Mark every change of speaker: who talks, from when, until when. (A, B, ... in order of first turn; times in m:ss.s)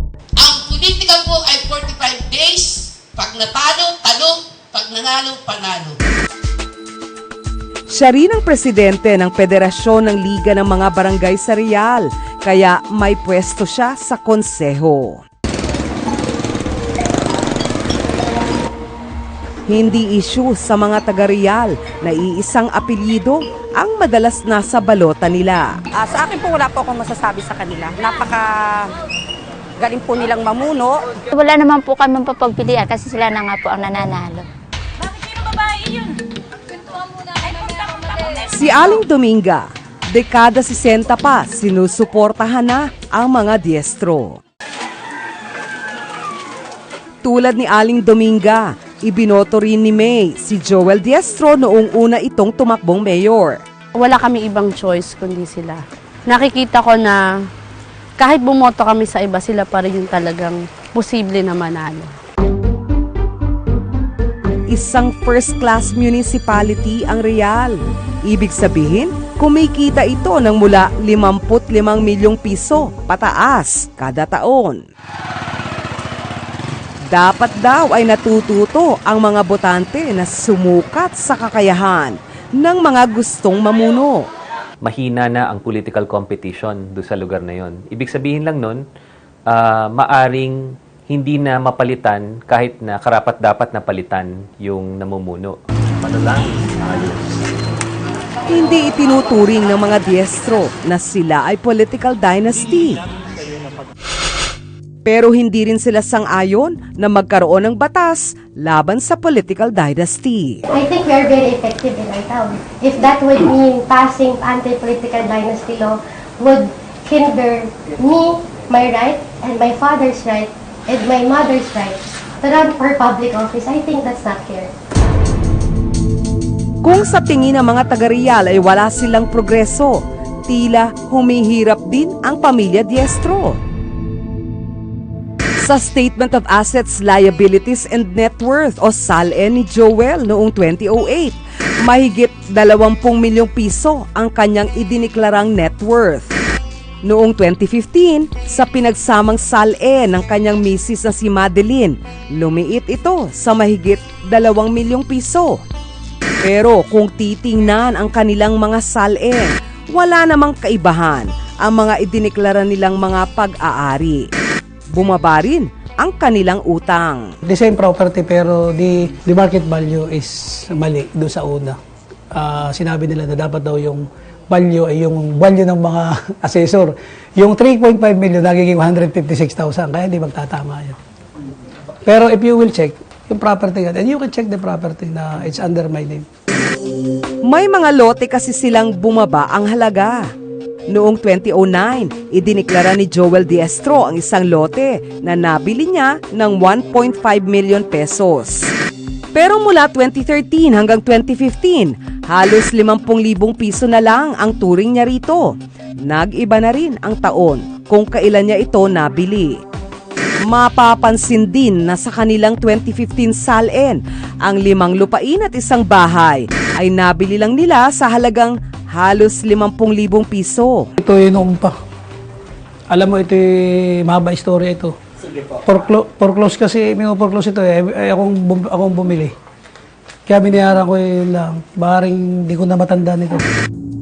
0:00.4-0:06.0 A
0:07.9-0:15.2 B
0:19.7-0:25.8 B
0:26.1-0:28.9 C
0:29.8-0:30.9 C
0:31.3-0:34.5 D
0:38.5-0:44.4 B
0:47.2-0:53.6 B
0:54.0-0:57.2 E
0:58.2-1:02.1 E
1:04.7-1:14.8 B
1:17.1-1:24.3 B
1:24.8-1:28.8 F
1:29.5-1:30.6 F
1:31.1-1:37.2 F
1:38.5-1:43.0 B
1:45.1-1:50.6 B
1:50.7-2:04.7 G
2:06.8-2:13.6 B
2:15.6-2:26.4 B
2:27.0-2:35.6 B
2:36.4-2:44.3 B
2:44.9-2:47.3 B
2:47.4-2:51.8 H
2:52.3-3:01.0 H
3:02.1-3:06.3 H
3:07.4-3:10.3 B
3:10.9-3:18.7 B
3:19.3-3:29.6 B
3:30.4-3:40.9 B
3:41.0-3:41.7 H
3:42.9-3:44.9 H
3:45.7-3:49.3 H
3:50.3-3:53.4 H